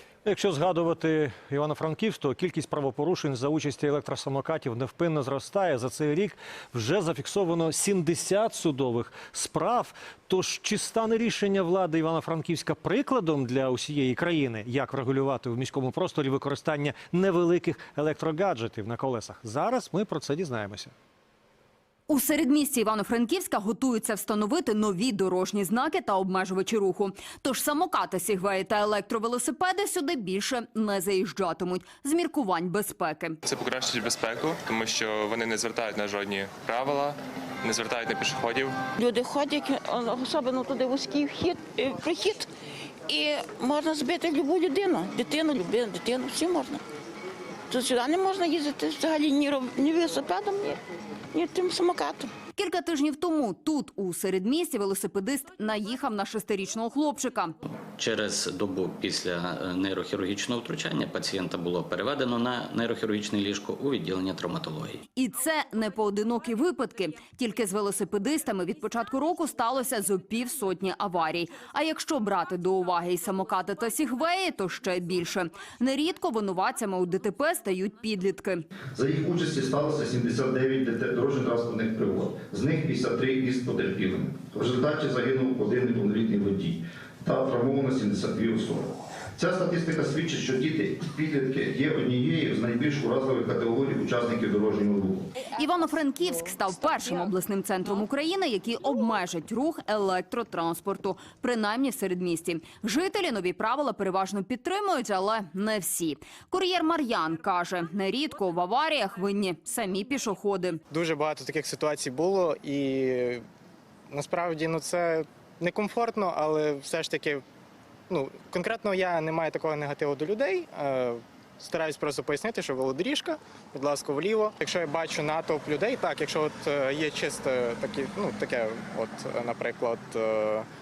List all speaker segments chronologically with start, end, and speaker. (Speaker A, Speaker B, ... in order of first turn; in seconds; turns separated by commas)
Speaker A: 0.2-20.9, Speaker B: 22.1-33.4, Speaker C: 33.5-38.8, Speaker D: 39.0-42.5, Speaker D: 43.1-46.8, Speaker D: 47.7-50.8, Speaker D: 51.3-52.3, Speaker B: 52.5-57.5, Speaker E: 58.0-65.0, Speaker B: 65.1-78.6, Speaker F: 78.9-95.3, Speaker B: 95.5-110.8, Speaker G: 110.9-113.4, Speaker G: 114.1-117.4, Speaker G: 118.1-130.7